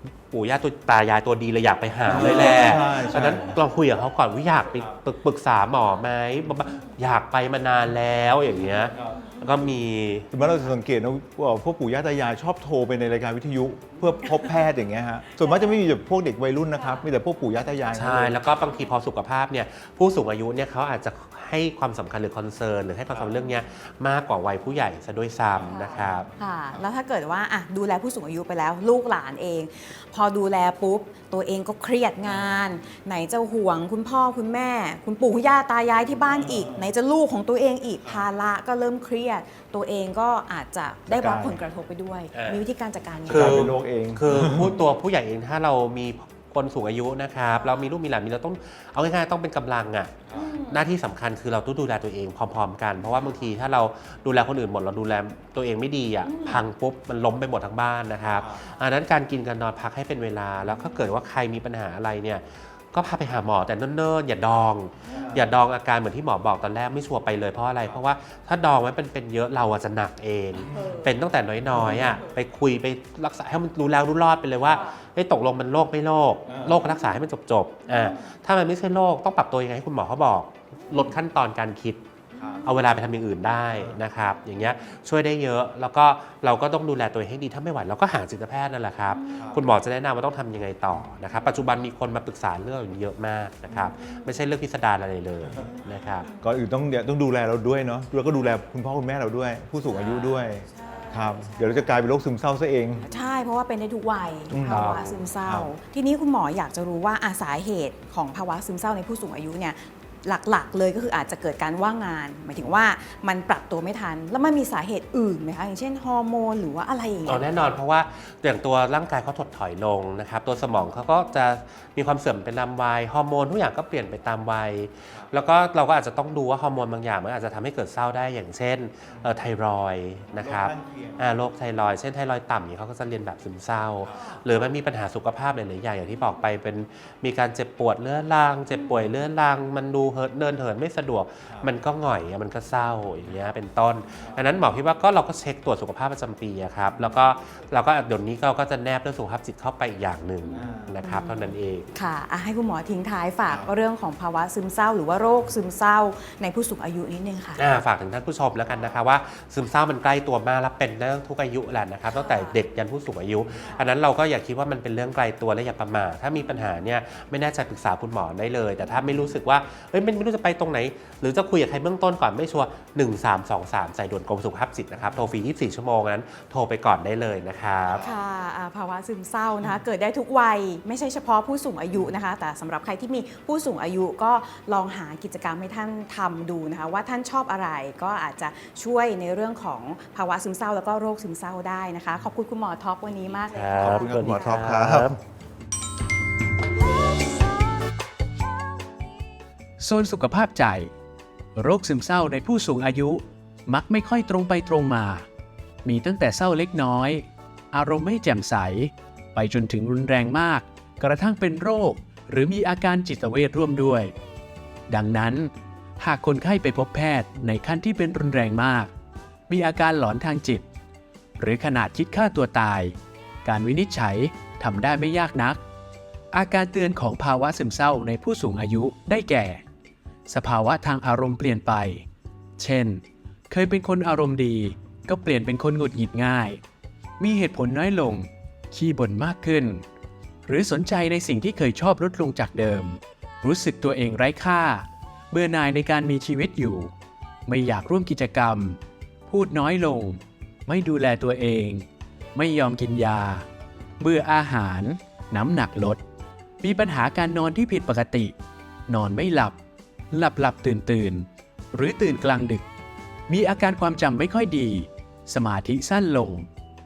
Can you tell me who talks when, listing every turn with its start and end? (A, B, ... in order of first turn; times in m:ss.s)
0:00.3-0:10.3 A
0:02.0-0:03.6 B
0:08.4-0:09.3 B
0:10.3-0:18.5 B
0:17.9-0:26.2 A
0:23.1-0:23.4 B
0:25.5-0:26.8 B
0:26.4-0:43.6 C
0:32.2-0:32.6 B
0:36.2-0:36.9 B
0:41.1-0:41.6 B
0:42.3-0:42.6 A
0:43.2-1:22.0 A
0:43.3-0:44.8 B
0:50.3-0:50.6 B
0:58.4-0:58.7 B
1:05.1-1:05.6 B
1:10.6-1:11.0 B
1:11.6-1:12.2 B
1:16.5-1:16.9 B
1:22.3-1:22.8 B
1:22.6-1:36.3 A
1:23.7-1:24.0 B
1:29.3-1:29.7 B
1:30.9-1:31.2 B
1:36.4-1:43.0 B
1:43.0-1:57.5 C
1:44.5-1:45.7 B
1:44.7-1:45.2 A
1:57.2-2:31.9 A
2:09.1-2:09.4 B
2:10.3-2:11.3 B
2:14.0-2:14.4 B
2:24.2-2:24.5 B
2:30.4-2:37.6 C
2:30.5-2:31.0 B
2:37.6-2:58.0 A
2:42.2-2:42.5 C
2:54.9-2:55.4 B
2:57.8-2:58.1 B
2:58.0-3:14.6 C
3:13.4-3:15.2 A
3:13.8-3:15.2 B
3:19.8-3:20.9 D
3:21.6-3:25.3 D
3:25.8-3:34.1 D
3:34.9-3:38.9 D
3:39.5-3:40.6 D
3:41.4-3:45.6 D
3:46.3-3:49.6 D
3:50.3-3:52.1 D
3:52.6-3:56.6 D
3:57.2-3:59.8 D
4:00.5-4:06.9 D
4:07.4-4:13.4 D
4:14.0-4:16.0 D
4:16.6-4:18.3 D
4:18.9-4:19.6 D
4:20.1-4:22.6 D
4:23.3-4:26.5 D